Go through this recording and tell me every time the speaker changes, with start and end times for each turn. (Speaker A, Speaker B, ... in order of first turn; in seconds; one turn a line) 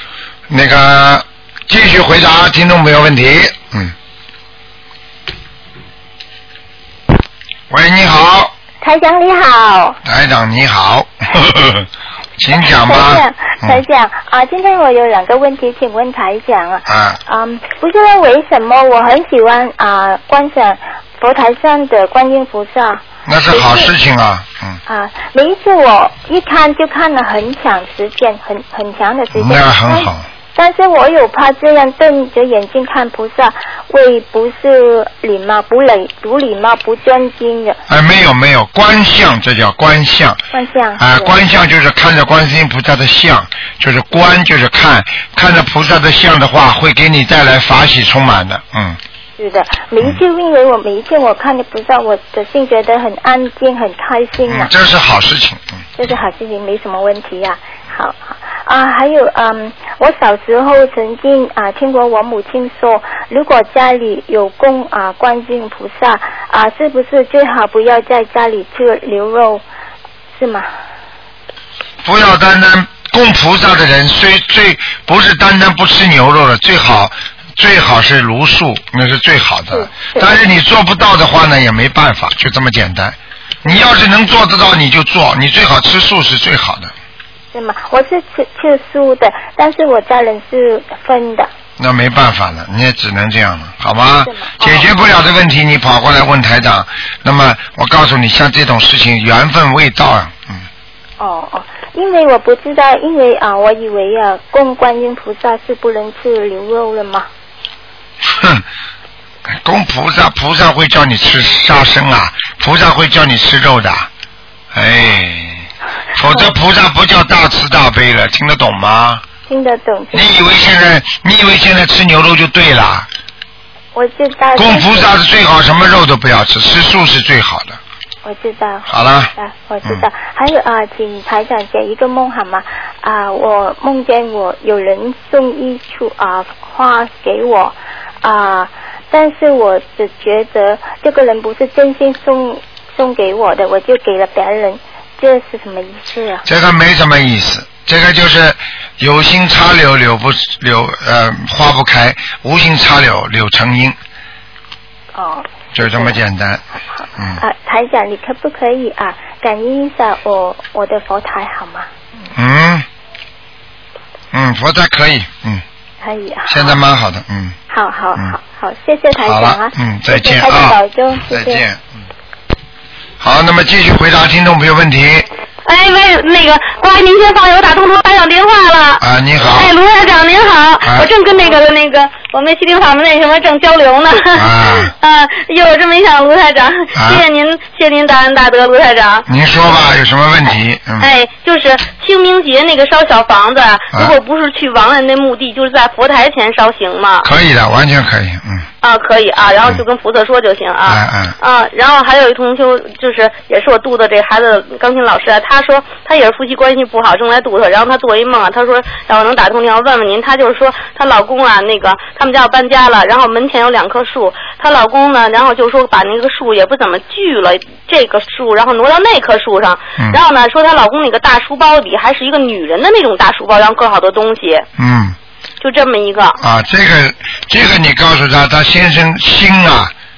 Speaker A: 0.5-3.9
Speaker A: 7.7-8.5
Speaker B: 8.8-10.0
Speaker A: 10.0-11.9
Speaker A: 12.4-13.8
Speaker B: 12.5-23.9
Speaker A: 16.9-17.2
Speaker A: 23.2-24.8
Speaker B: 24.9-37.8
Speaker A: 29.3-30.2
Speaker A: 37.9-40.4
Speaker B: 40.5-41.3
Speaker A: 41.0-49.0
Speaker B: 49.4-54.7
Speaker A: 54.5-55.8
Speaker B: 56.0-69.6
Speaker B: 70.3-70.7
Speaker A: 72.0-86.9
Speaker B: 79.7-80.3
Speaker B: 87.5-91.5
Speaker A: 91.8-100.6
Speaker B: 94.2-94.8
Speaker B: 101.2-107.3
Speaker A: 108.2-108.6
Speaker A: 109.6-114.1
Speaker A: 114.7-119.2
Speaker B: 119.5-120.3
Speaker A: 120.1-123.1
Speaker B: 123.9-125.1
Speaker A: 124.5-127.8
Speaker B: 128.2-146.4
Speaker A: 128.9-129.3
Speaker A: 146.4-154.0
Speaker B: 155.1-156.2
Speaker A: 155.7-156.6
Speaker B: 157.0-161.9
Speaker A: 162.3-162.8
Speaker A: 164.3-165.6
Speaker B: 166.0-166.7
Speaker A: 166.5-167.6
Speaker B: 167.7-171.6
Speaker A: 169.2-170.8
Speaker A: 171.3-171.9
Speaker A: 173.2-175.2
Speaker C: 175.7-189.3
Speaker A: 179.0-179.7
Speaker A: 180.8-181.1
Speaker A: 184.3-184.9
Speaker A: 186.9-187.2
Speaker A: 189.3-191.1
Speaker C: 191.0-197.3
Speaker A: 197.2-198.7
Speaker C: 198.8-224.7
Speaker A: 200.8-201.3
Speaker A: 224.8-225.2
Speaker C: 225.6-226.4
Speaker A: 226.4-229.9